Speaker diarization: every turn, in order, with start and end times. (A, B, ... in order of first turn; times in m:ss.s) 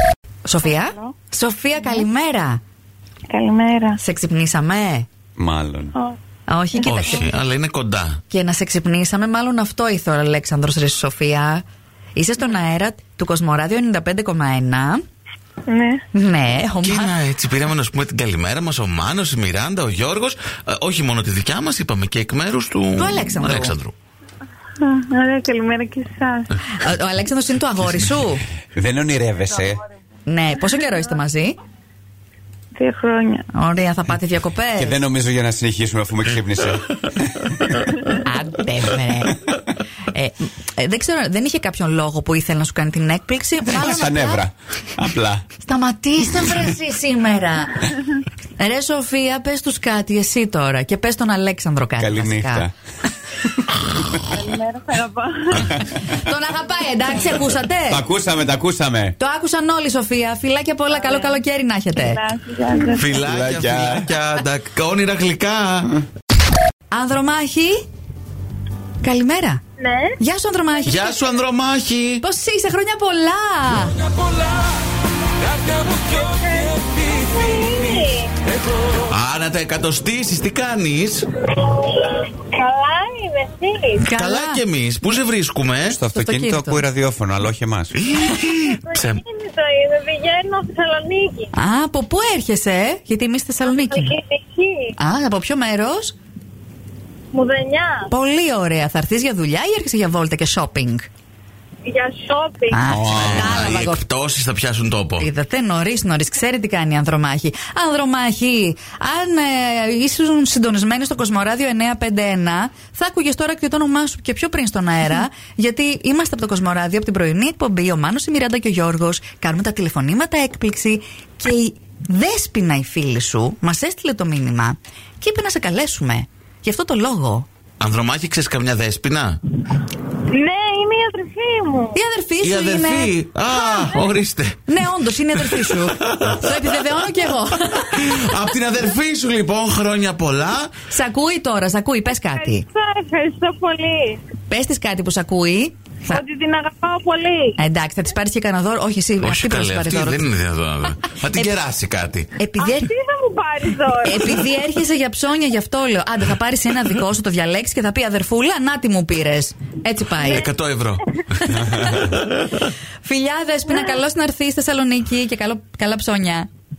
0:00.4-0:02.6 A
0:00.8-0:01.1 B
0:03.3-0:04.0 B
0:04.0-0:05.0 A
0:05.4-0:05.9 C
0:06.5-0:07.2 A
0:06.8-0:08.2 D
0:08.3-0:11.6 A
0:12.1-0:15.0 A
0:15.7-0:16.0 B
0:16.1-0:17.1 A
0:16.8-0:23.9 D
0:23.0-0:23.8 A
0:24.8-0:26.5 B
0:26.7-0:28.4 A
0:28.7-0:29.8 C
0:30.2-0:31.6 A
0:32.7-0:33.5 B
0:33.5-0:35.0 A
0:34.8-0:37.8 C
0:38.1-0:39.4 A
0:40.1-0:44.4 A
0:43.7-0:45.4 C
0:45.6-0:52.7 A
0:52.0-0:52.7 C
0:54.3-0:55.7 B
0:55.5-0:55.8 D
0:55.9-0:58.0 A
0:57.9-0:59.2 C
0:59.2-1:02.2 A
1:00.9-1:01.4 B
1:02.0-1:03.2 B
1:02.9-1:06.0 D
1:03.2-1:04.1 C
1:06.9-1:07.8 A
1:09.0-1:09.6 A
1:09.8-1:10.2 B
1:10.2-1:11.1 A
1:10.8-1:12.2 D
1:12.2-1:14.0 A
1:15.8-1:18.3 B
1:19.0-1:21.3 D
1:21.7-1:24.1 B
1:24.0-1:24.6 A
1:24.1-1:26.0 D
1:25.8-1:28.0 C
1:26.1-1:26.8 A
1:27.9-1:29.2 D
1:28.4-1:31.5 B
1:31.5-1:34.2 A
1:33.6-1:34.9 B
1:35.0-1:36.2 A
1:37.3-1:38.1 B
1:38.1-1:41.0 A
1:41.8-1:42.8 B
1:42.7-1:44.0 A
1:42.9-1:43.6 C
1:43.1-1:45.3 D
1:45.2-2:07.4 A
2:07.8-2:09.4 D
2:10.3-2:12.0 B
2:11.9-2:13.1 A
2:12.4-2:16.8 D
2:14.7-2:18.2 A
2:17.8-2:20.7 D
2:20.9-2:22.6 A
2:22.1-2:24.2 B
2:24.5-2:26.2 A
2:26.1-2:27.6 B
2:27.6-2:30.3 A
2:29.2-2:32.3 D
2:32.4-2:32.9 A
2:32.6-2:34.4 B
2:34.0-2:40.5 A
2:40.2-2:42.7 D
2:41.5-2:42.1 C
2:41.5-2:42.1 A
2:43.0-2:46.5 A